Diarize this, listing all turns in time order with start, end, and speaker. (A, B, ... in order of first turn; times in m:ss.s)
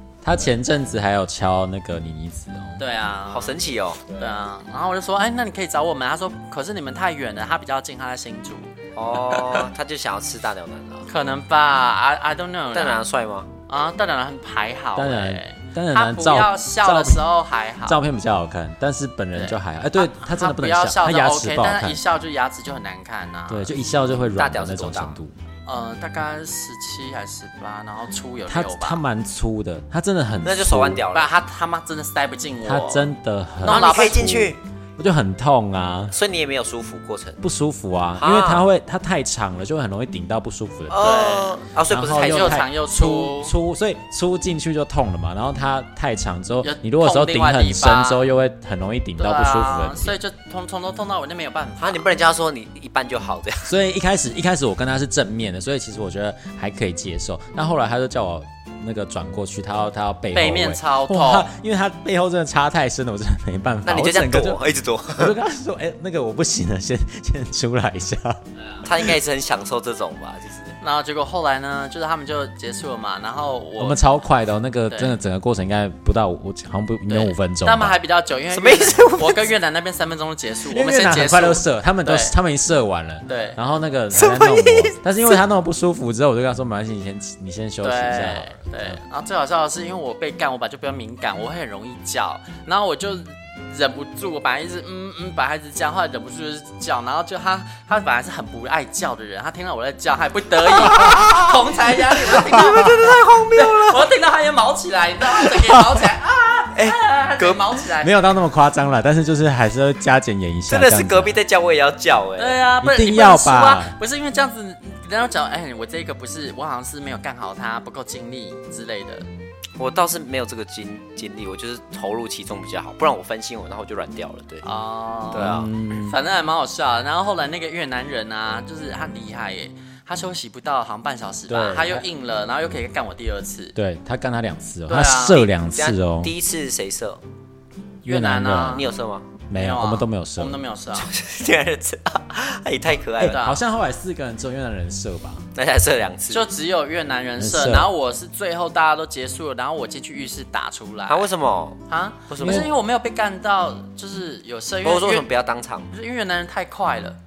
0:00.2-0:02.8 A
0:02.8-0:03.6 B
0:03.3-0:04.1 C
0:04.1-0:08.7 B
0:09.0-0:11.1 C
0:09.4-0:09.6 B
0:11.1-0:13.0 B
0:12.7-0:13.5 C
0:13.7-0:18.0 B
0:14.9-0:17.2 A
0:17.8-0:22.0 A
0:19.3-0:23.7 B
0:23.5-0:25.3 A
0:24.3-0:25.2 C
0:25.6-0:29.0 B
0:28.5-0:31.0 A
0:30.4-0:31.3 C
0:31.1-0:33.1 B
0:32.6-0:36.1 A
0:33.6-0:34.4 B
0:33.6-0:34.6 C
0:36.1-0:37.4 C
0:37.4-0:41.2 A
0:38.2-0:38.6 C
0:40.9-0:42.6 C
0:41.0-0:41.6 B
0:41.9-0:50.2 A
0:42.1-0:43.5 B
0:46.6-0:48.3 B
0:49.2-0:52.1 B
0:51.8-0:53.7 C
0:53.6-1:04.6 A
1:00.3-1:01.5 B
1:03.8-1:05.4 C
1:05.1-1:08.4 A
1:08.8-1:10.8 C
1:10.8-1:14.0 B
1:13.8-1:18.0 A
1:14.9-1:15.1 B
1:17.1-1:22.3 B
1:18.5-1:19.5 C
1:20.7-1:29.0 A
1:23.2-1:23.6 B
1:24.1-1:25.0 C
1:27.8-1:48.1 B
1:40.8-1:41.6 C
1:42.2-1:44.1 C
1:46.7-1:47.8 C
1:48.0-1:51.4 A
1:50.7-1:52.6 C
1:52.4-1:59.2 B
1:52.8-1:53.9 A
1:59.8-2:04.6 C
2:04.6-2:13.7 B
2:05.3-2:05.7 C
2:05.3-2:06.2 A
2:11.5-2:12.0 A
2:13.7-2:16.3 A
2:14.9-2:15.5 B
2:15.7-2:17.2 C
2:18.0-2:18.8 A
2:18.0-2:18.8 B
2:18.7-2:19.2 C
2:19.5-2:20.6 A
2:19.5-2:21.1 B
2:21.0-2:23.4 C
2:23.2-2:25.5 A
2:23.2-2:23.6 B
2:25.5-2:26.4 C
2:26.3-2:31.2 B
2:27.4-2:27.9 A
2:31.1-2:32.7 C
2:31.9-2:35.3 B
2:32.4-2:32.7 A
2:34.8-2:35.9 C
2:35.9-2:37.2 B